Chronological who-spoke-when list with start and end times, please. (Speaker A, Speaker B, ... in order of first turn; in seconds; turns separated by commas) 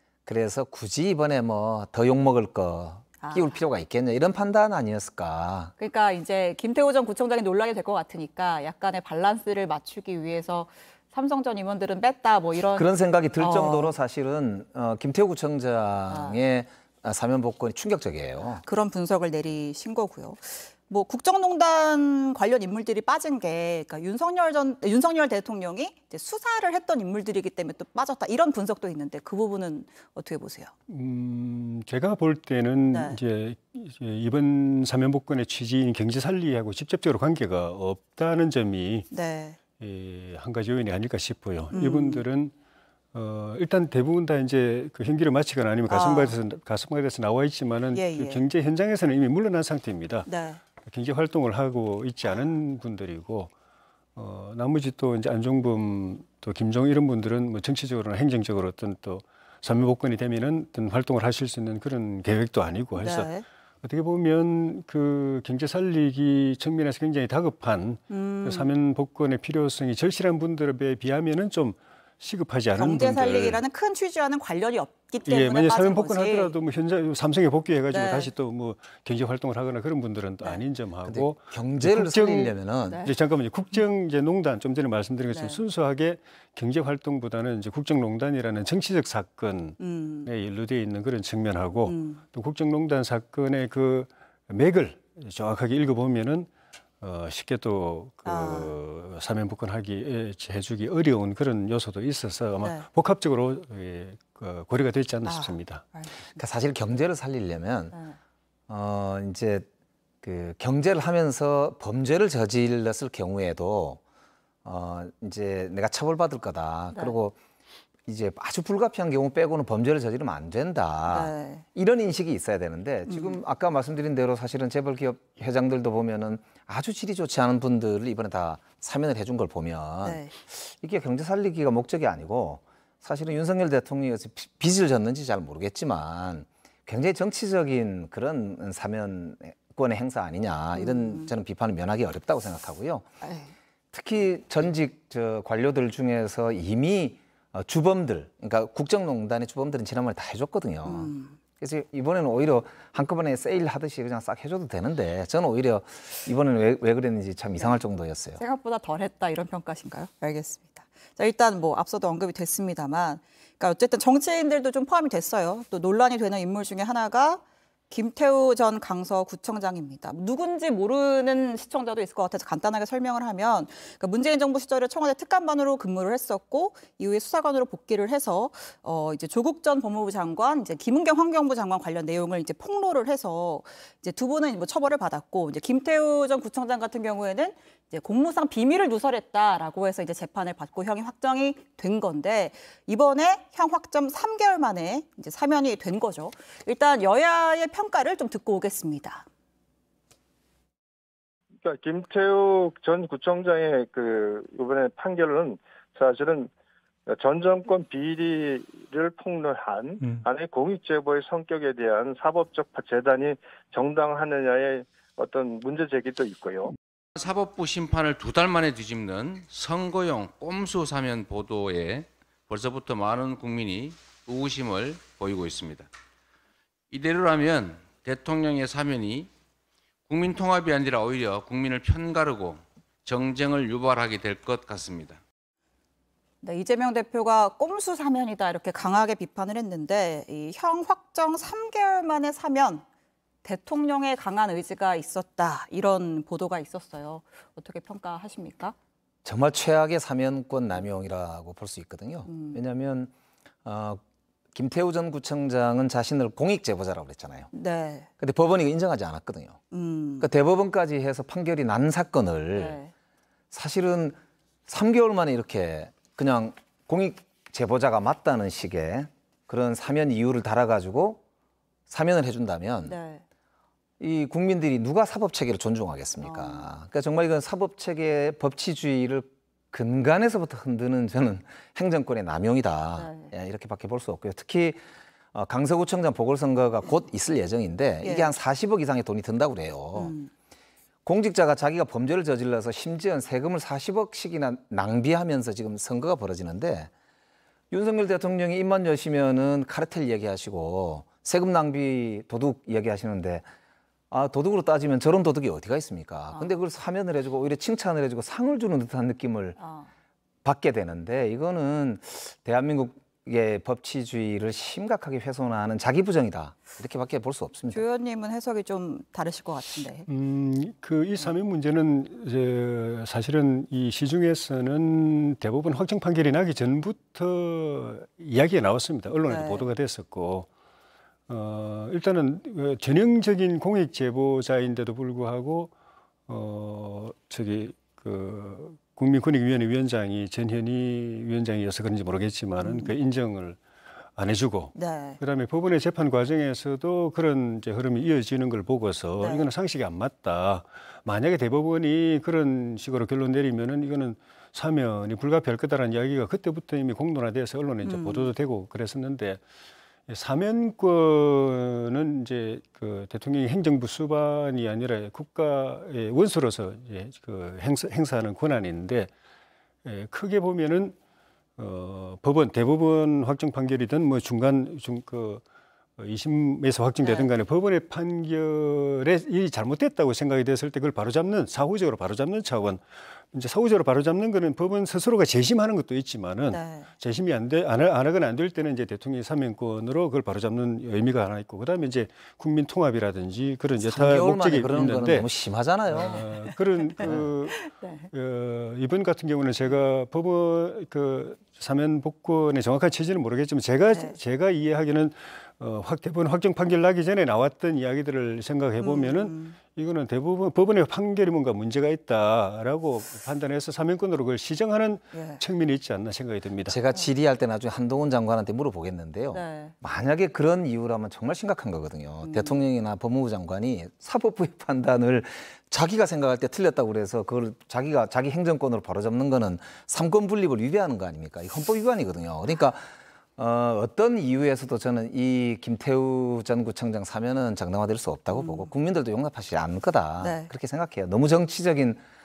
Speaker A: 0.2-5.7, Speaker B: 3.2-3.6, Speaker B: 5.8-13.9, Speaker A: 12.7-18.6, Speaker B: 16.1-16.4, Speaker B: 18.5-30.7, Speaker C: 30.9-39.1, Speaker B: 32.9-33.2, Speaker B: 39.1-39.6, Speaker C: 39.8-42.5, Speaker B: 41.7-42.2, Speaker C: 43.1-50.3, Speaker B: 45.9-46.4, Speaker B: 47.9-48.4, Speaker B: 50.2-50.6, Speaker C: 50.8-53.5, Speaker C: 54.1-73.6, Speaker B: 63.0-63.4, Speaker B: 68.1-68.7, Speaker B: 72.7-76.5, Speaker C: 75.2-96.5, Speaker B: 77.9-78.3, Speaker A: 81.0-83.0, Speaker B: 85.3-85.6, Speaker B: 89.8-90.3, Speaker B: 91.8-92.2, Speaker C: 97.0-105.8, Speaker B: 98.2-98.7, Speaker B: 105.2-106.4, Speaker A: 106.3-107.9, Speaker B: 107.9-108.2, Speaker A: 108.7-109.7, Speaker A: 110.2-114.0, Speaker A: 114.6-117.3, Speaker A: 118.0-143.1, Speaker B: 121.1-121.6, Speaker B: 123.1-123.4, Speaker B: 130.0-130.3, Speaker B: 140.8-141.3, Speaker B: 143.2-143.5, Speaker A: 143.9-158.4, Speaker B: 150.8-151.4, Speaker B: 158.4-199.3, Speaker D: 201.6-206.5, Speaker D: 207.1-216.7, Speaker E: 217.2-225.9, Speaker E: 226.9-229.3, Speaker E: 230.1-235.2, Speaker B: 236.4-242.8, Speaker B: 243.4-248.7, Speaker A: 249.2-253.1, Speaker B: 252.3-252.6, Speaker A: 253.6-254.0, Speaker A: 254.5-257.5, Speaker B: 257.5-258.1, Speaker A: 258.2-259.6, Speaker B: 259.7-260.3, Speaker A: 260.2-262.8, Speaker B: 262.5-262.9, Speaker A: 263.5-271.2, Speaker A: 271.9-272.9, Speaker B: 272.9-273.2, Speaker A: 274.0-284.8, Speaker B: 276.2-276.7, Speaker B: 283.0-283.3, Speaker A: 285.3-290.1, Speaker B: 288.0-288.3, Speaker B: 289.9-290.3, Speaker A: 291.0-296.9, Speaker A: 297.7-303.5, Speaker A: 304.1-309.6, Speaker B: 309.6-309.9, Speaker A: 310.4-317.9, Speaker B: 317.7-320.1, Speaker C: 320.1-330.5, Speaker B: 329.2-329.6, Speaker C: 331.3-335.7, Speaker C: 336.3-343.6, Speaker B: 342.6-342.9, Speaker C: 344.1-359.4, Speaker B: 344.7-345.2, Speaker B: 349.2-349.5, Speaker B: 357.8-358.3, Speaker C: 360.1-369.1, Speaker C: 369.8-370.9, Speaker C: 371.6-375.4, Speaker C: 376.0-395.3, Speaker B: 377.0-377.3, Speaker B: 386.5-386.9, Speaker A: 393.8-396.3, Speaker C: 395.9-416.8, Speaker B: 397.6-398.0, Speaker B: 403.9-404.2, Speaker B: 408.8-409.6, Speaker B: 415.1-415.4, Speaker A: 416.7-442.0, Speaker B: 419.3-419.7, Speaker B: 422.2-422.6, Speaker B: 438.3-438.7, Speaker B: 440.2-440.5